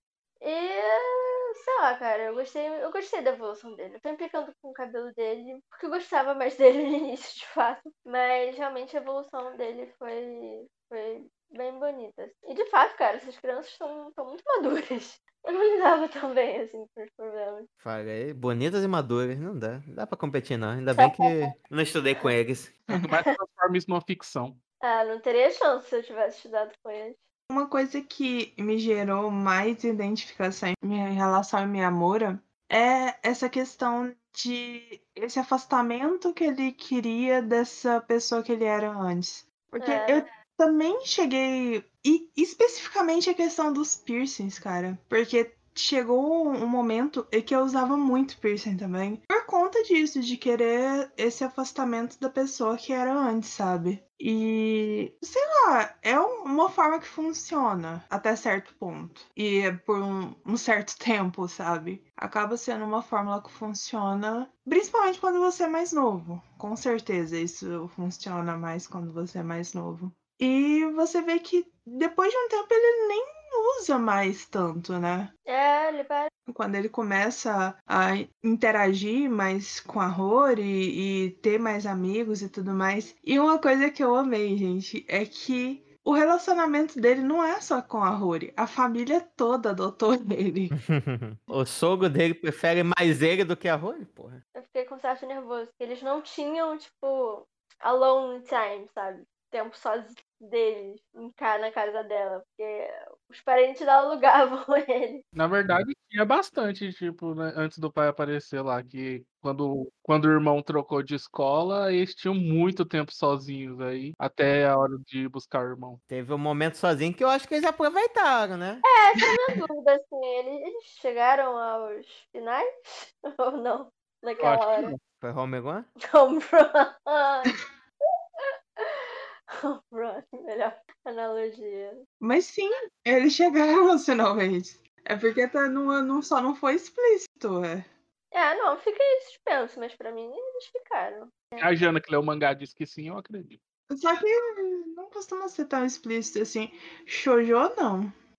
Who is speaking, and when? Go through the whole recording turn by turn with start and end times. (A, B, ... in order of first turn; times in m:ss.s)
0:00.4-0:17.7 A
0:17.8-0:22.8 B
0:21.0-0:21.5 A
0:22.9-0:24.6 C
0:24.8-0:27.2 A
0:27.5-1:15.3 D
0:39.8-0:40.2 A
1:15.5-1:16.3 A
1:16.5-1:30.8 D
1:30.8-1:34.4 B
1:34.5-1:45.2 A
1:45.4-1:56.0 C
1:56.1-1:58.8 B
1:58.8-2:04.9 A
2:04.4-2:05.0 C
2:05.2-2:05.9 B
2:06.1-2:07.5 A
2:08.4-2:12.0 A
2:12.2-2:17.9 D
2:18.3-2:21.8 A
2:21.6-2:23.6 C
2:23.9-2:28.1 D